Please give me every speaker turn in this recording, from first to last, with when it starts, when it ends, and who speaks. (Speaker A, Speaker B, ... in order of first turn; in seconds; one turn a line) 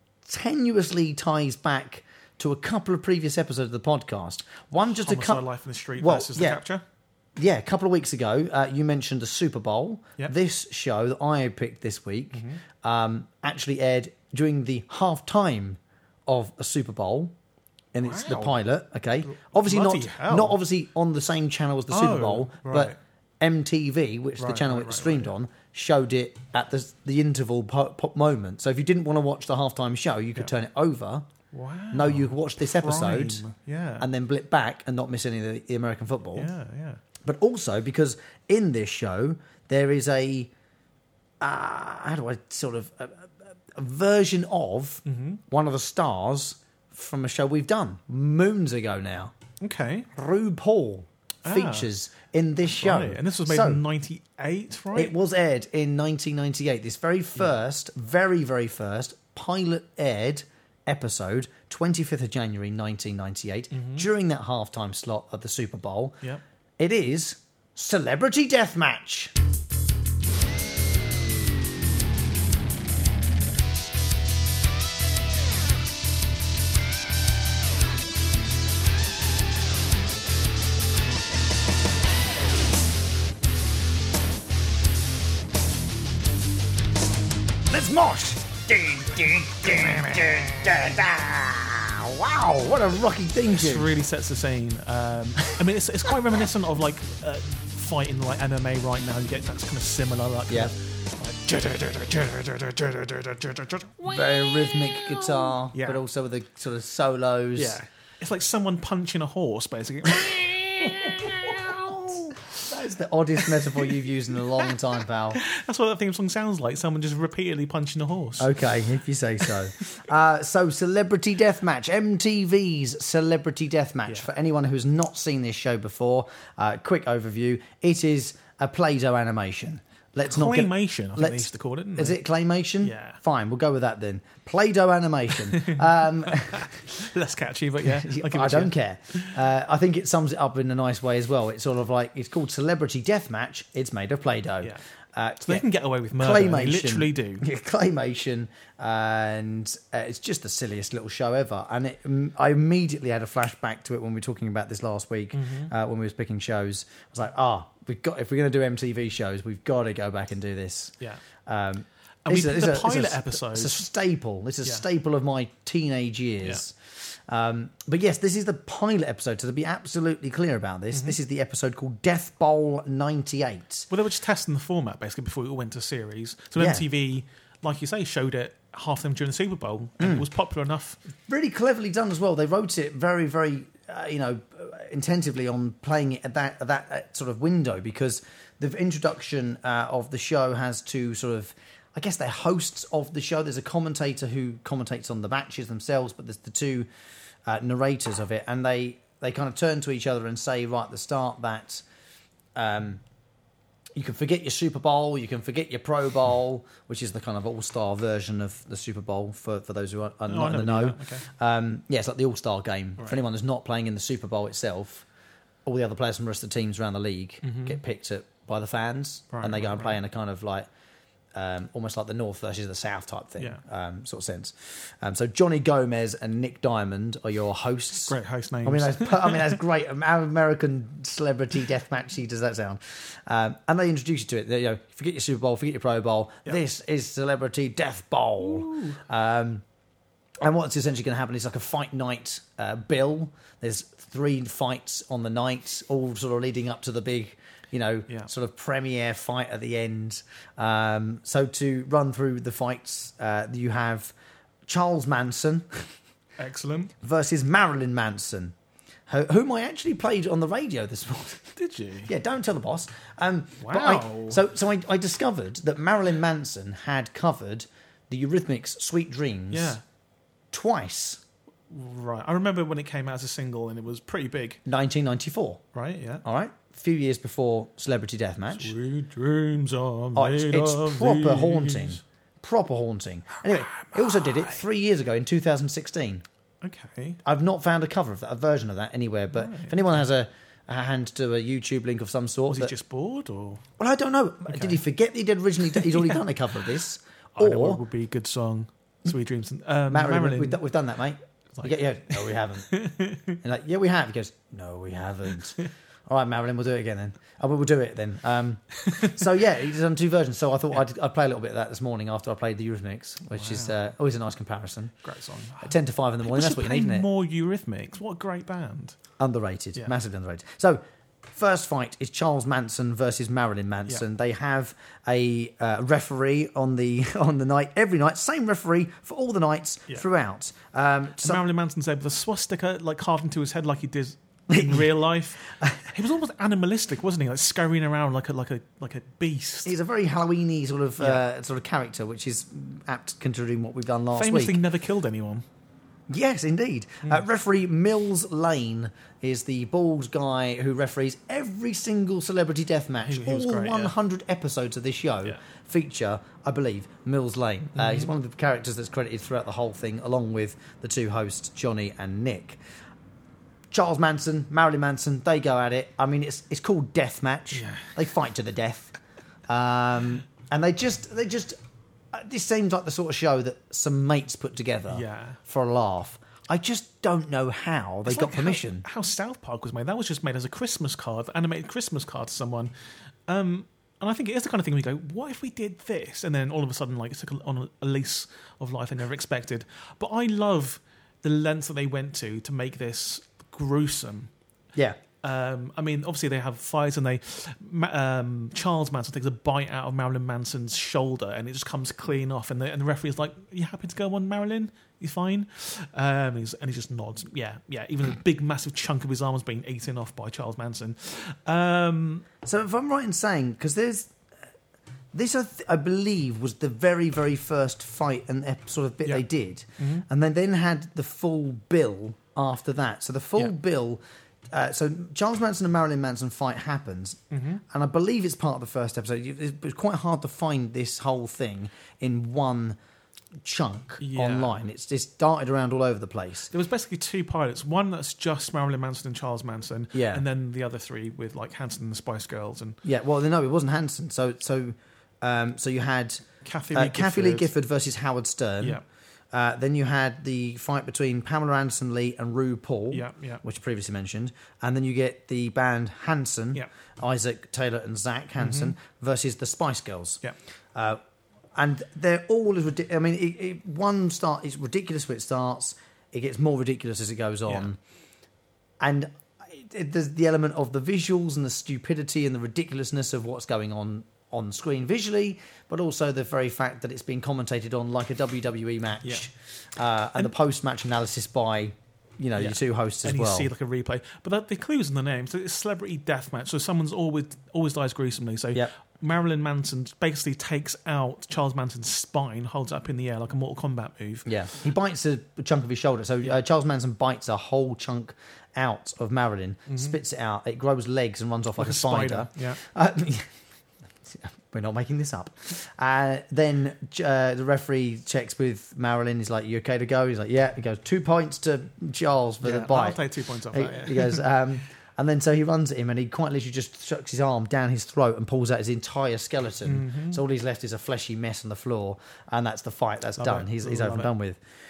Speaker A: 0.2-5.5
Speaker B: 4.9-6.8
Speaker A: 6.0-6.6
Speaker A: 7.4-17.4
Speaker B: 12.3-12.6
Speaker A: 17.9-31.3
Speaker B: 18.0-18.6
Speaker B: 19.3-20.6
Speaker B: 21.9-23.0
Speaker B: 24.4-25.3
Speaker B: 31.5-34.1
Speaker A: 31.9-33.5
Speaker A: 34.0-36.5
Speaker B: 36.3-37.0
Speaker A: 37.2-40.5
Speaker A: 41.4-49.3
Speaker B: 45.0-45.4
Speaker B: 49.6-50.1
Speaker A: 50.1-53.8
Speaker B: 51.5-51.9
Speaker B: 52.7-55.1
Speaker A: 55.0-66.2
Speaker B: 63.7-64.1
Speaker A: 66.8-69.3
Speaker A: 87.7-93.9
Speaker B: 93.5-106.0
Speaker A: 104.0-107.8
Speaker B: 107.5-112.7
Speaker A: 110.8-115.4
Speaker B: 113.4-113.9
Speaker B: 115.3-118.5
Speaker A: 118.4-136.7
Speaker B: 130.2-132.2
Speaker B: 132.8-133.2
Speaker B: 135.3-139.3
Speaker A: 137.8-160.9
Speaker B: 145.5-147.5
Speaker B: 155.3-155.7
Speaker A: 161.5-173.9
Speaker B: 162.2-163.8
Speaker B: 170.9-171.2
Speaker B: 173.9-181.0
Speaker A: 176.6-176.8
Speaker A: 180.0-180.3
Speaker A: 181.3-196.9
Speaker A: 197.5-201.8
Speaker A: 202.6-203.0
Speaker A: 204.0-215.1
Speaker B: 210.3-211.3
Speaker A: 215.7-220.7
Speaker B: 217.4-217.8
Speaker B: 219.3-220.0
Speaker A: 221.3-239.6
Speaker B: 228.1-229.6
Speaker B: 238.4-239.0
Speaker A: 240.4-254.1
Speaker A: 254.7-255.9
Speaker B: 256.4-256.9
Speaker A: 257.0-258.6
Speaker A: 259.1-269.8
Speaker B: 261.6-262.1
Speaker B: 263.6-264.4
Speaker B: 269.5-269.8
Speaker A: 270.5-271.2
Speaker B: 271.7-274.6
Speaker A: 274.7-275.6
Speaker B: 275.7-276.2
Speaker A: 276.2-278.8
Speaker B: 278.5-282.0
Speaker A: 280.1-286.2
Speaker B: 283.7-284.6
Speaker B: 286.6-287.2
Speaker A: 287.2-292.7
Speaker B: 289.3-290.1
Speaker B: 292.5-293.6
Speaker A: 293.8-297.8
Speaker B: 294.5-294.8
Speaker B: 295.8-296.2
Speaker B: 297.4-300.6
Speaker A: 299.9-302.7
Speaker B: 302.7-303.4
Speaker A: 303.4-314.9
Speaker B: 308.9-309.2
Speaker B: 313.3-313.8
Speaker B: 315.0-319.0
Speaker A: 315.6-317.1
Speaker A: 319.2-331.4
Speaker B: 331.2-339.8
Speaker A: 334.5-334.9
Speaker A: 335.5-335.9
Speaker A: 339.7-344.6
Speaker B: 344.1-345.4
Speaker A: 346.1-362.6
Speaker B: 353.0-353.9
Speaker B: 357.8-358.1
Speaker A: 363.7-368.9
Speaker B: 367.5-368.0
Speaker A: 369.5-371.6
Speaker A: 372.1-378.8
Speaker B: 374.9-375.4
Speaker B: 378.1-382.7
Speaker B: 383.3-394.3
Speaker B: 395.2-412.3
Speaker A: 412.4-414.2
Speaker A: 415.1-432.8
Speaker B: 419.8-420.1
Speaker B: 427.3-427.6
Speaker A: 433.4-436.5
Speaker B: 434.0-434.6
Speaker B: 436.5-442.8
Speaker A: 439.9-440.2
Speaker A: 442.8-448.8
Speaker B: 446.4-447.5
Speaker A: 449.3-460.2
Speaker B: 452.9-453.4
Speaker B: 458.4-458.7
Speaker A: 460.8-461.0
Speaker A: 461.6-467.8
Speaker A: 468.8-483.5
Speaker B: 482.4-494.3
Speaker A: 494.3-503.3
Speaker B: 499.7-500.0
Speaker B: 501.6-502.6
Speaker A: 504.0-524.4
Speaker B: 512.4-514.3
Speaker B: 519.6-520.2
Speaker B: 523.2-524.1